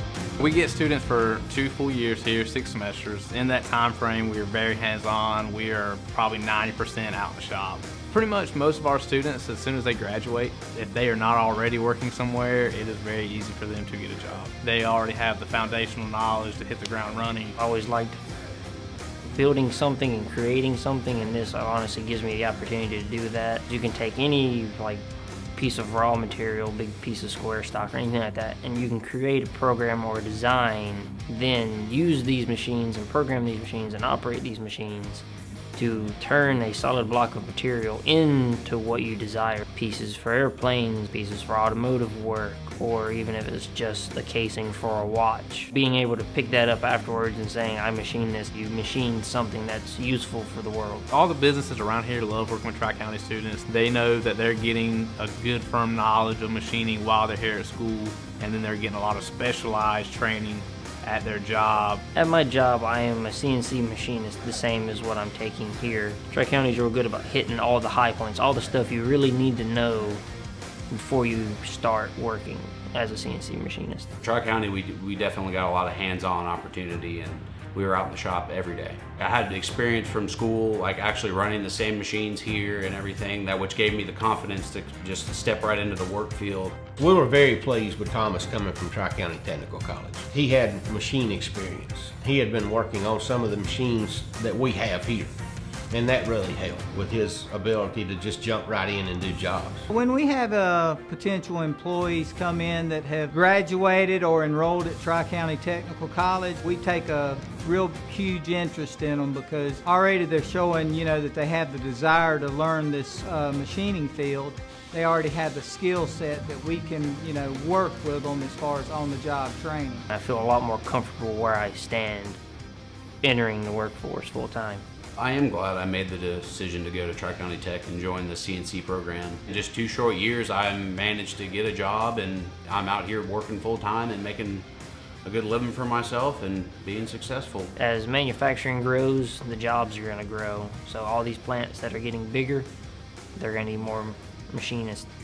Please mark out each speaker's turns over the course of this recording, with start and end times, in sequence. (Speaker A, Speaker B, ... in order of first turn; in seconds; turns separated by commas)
Speaker A: 0.4-17.6, Speaker B: 17.6-18.2, Speaker B: 19.3-25.0, Speaker B: 25.6-51.1, Speaker A: 51.1-62.0, Speaker B: 62.1-70.2, Speaker B: 70.9-74.1, Speaker C: 74.2-86.9, Speaker D: 87.0-95.3, Speaker D: 95.9-99.9, Speaker E: 99.9-120.1, Speaker B: 120.1-122.4, Speaker B: 123.2-124.8, Speaker C: 125.2-134.7, Speaker C: 135.2-137.7, Speaker B: 137.8-142.7, Speaker B: 143.4-145.1